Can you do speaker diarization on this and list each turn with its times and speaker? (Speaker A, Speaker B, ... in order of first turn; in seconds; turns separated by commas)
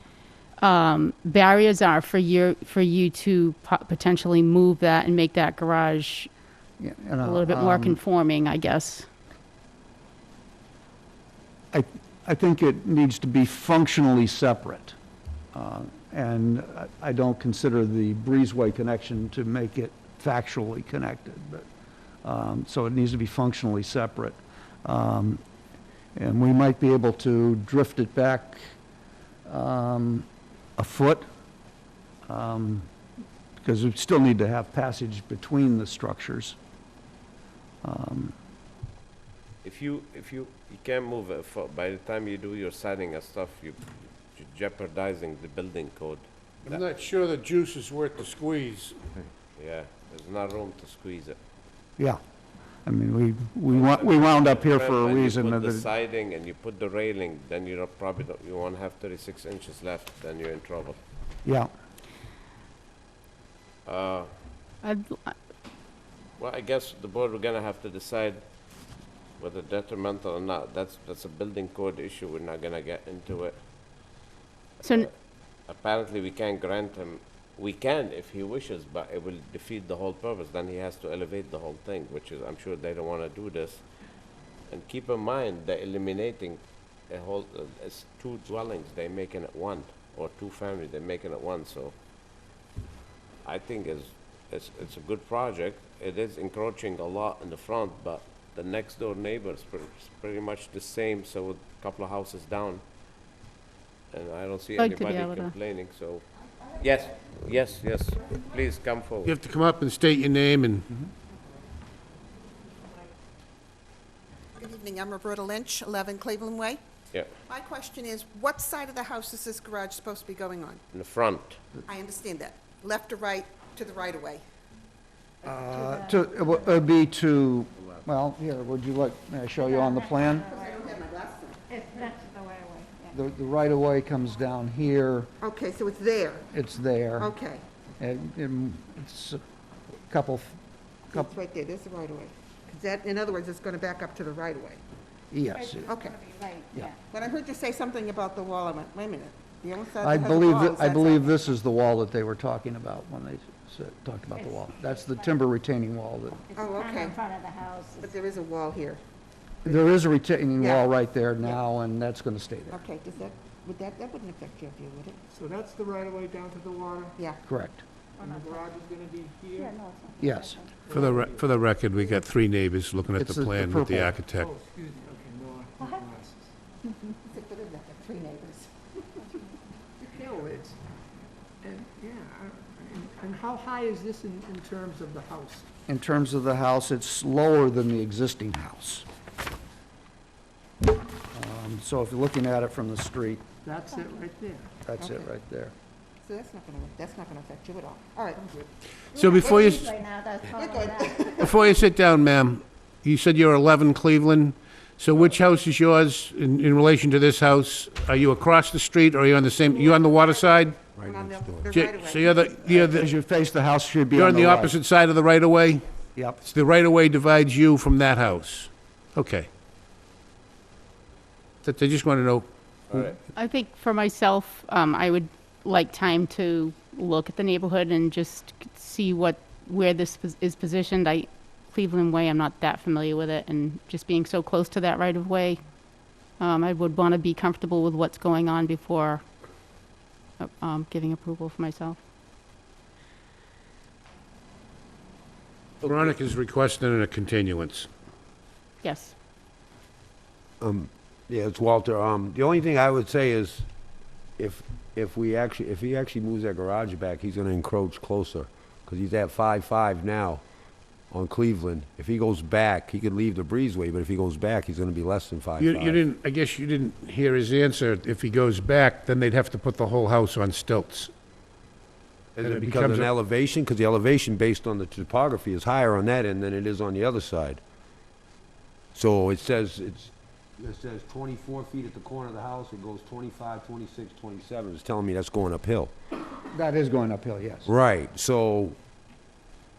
Speaker A: 0.6-6.3, Speaker B: 6.8-8.0, Speaker A: 7.2-9.1, Speaker B: 11.7-15.0, Speaker B: 15.5-21.7, Speaker B: 22.2-25.4, Speaker B: 26.1-28.7, Speaker B: 29.5-31.3, Speaker B: 32.3-32.9, Speaker B: 33.6-36.6, Speaker B: 37.8-38.4, Speaker C: 39.6-46.3, Speaker D: 46.7-49.0, Speaker C: 49.6-51.4, Speaker B: 52.9-55.9, Speaker C: 53.7-61.0, Speaker C: 63.9-64.3, Speaker A: 64.8-65.3, Speaker C: 66.4-68.5, Speaker C: 69.4-74.0, Speaker C: 74.8-83.8, Speaker A: 74.8-75.1, Speaker C: 84.7-92.0, Speaker C: 93.4-102.8, Speaker C: 104.1-109.4, Speaker A: 104.8-105.6, Speaker D: 109.2-110.9, Speaker E: 114.6-116.8, Speaker E: 117.5-120.8, Speaker C: 120.9-121.6, Speaker E: 121.9-124.4, Speaker B: 125.4-130.5, Speaker F: 125.5-126.1, Speaker F: 129.6-130.9, Speaker E: 130.4-131.6, Speaker F: 131.7-133.1, Speaker B: 133.1-135.3, Speaker E: 135.4-136.5, Speaker B: 136.5-137.3, Speaker E: 137.2-137.6, Speaker B: 138.0-139.4, Speaker B: 140.1-140.6, Speaker E: 141.1-144.8, Speaker B: 145.3-145.9, Speaker F: 145.6-147.0, Speaker E: 145.8-146.2, Speaker E: 146.8-151.4, Speaker B: 150.0-156.4, Speaker E: 156.6-157.2, Speaker F: 156.7-158.1, Speaker E: 158.0-159.0, Speaker B: 159.7-162.8, Speaker E: 160.6-160.9, Speaker E: 162.7-165.2, Speaker G: 165.3-167.2, Speaker B: 167.4-167.8, Speaker G: 168.2-169.8, Speaker F: 168.2-168.6, Speaker F: 169.6-170.6, Speaker B: 170.2-170.7, Speaker G: 170.8-171.5, Speaker D: 170.9-174.5, Speaker B: 173.2-174.2, Speaker G: 174.4-176.5, Speaker E: 177.1-179.4, Speaker G: 180.0-180.8, Speaker G: 181.6-185.7, Speaker B: 185.9-189.1, Speaker B: 191.3-193.4, Speaker G: 193.6-194.7, Speaker B: 194.9-195.7, Speaker E: 195.0-195.3, Speaker E: 196.2-198.4, Speaker G: 198.4-198.7, Speaker D: 199.1-199.9, Speaker F: 199.2-201.2, Speaker E: 199.3-199.8, Speaker E: 200.4-201.7, Speaker D: 201.4-210.8, Speaker E: 209.7-212.7, Speaker H: 211.0-211.7, Speaker D: 211.7-213.1, Speaker B: 212.6-214.8, Speaker D: 214.2-219.5, Speaker D: 221.6-222.5, Speaker C: 222.9-223.2, Speaker A: 223.3-235.6, Speaker A: 236.4-239.2, Speaker A: 240.4-242.0, Speaker D: 245.8-247.9, Speaker A: 248.8-249.1, Speaker H: 250.6-253.7, Speaker H: 254.4-260.4, Speaker H: 261.1-266.0, Speaker D: 265.6-271.1, Speaker H: 272.4-277.6, Speaker D: 272.4-273.1, Speaker H: 278.9-285.9, Speaker B: 286.5-287.7, Speaker H: 287.7-288.8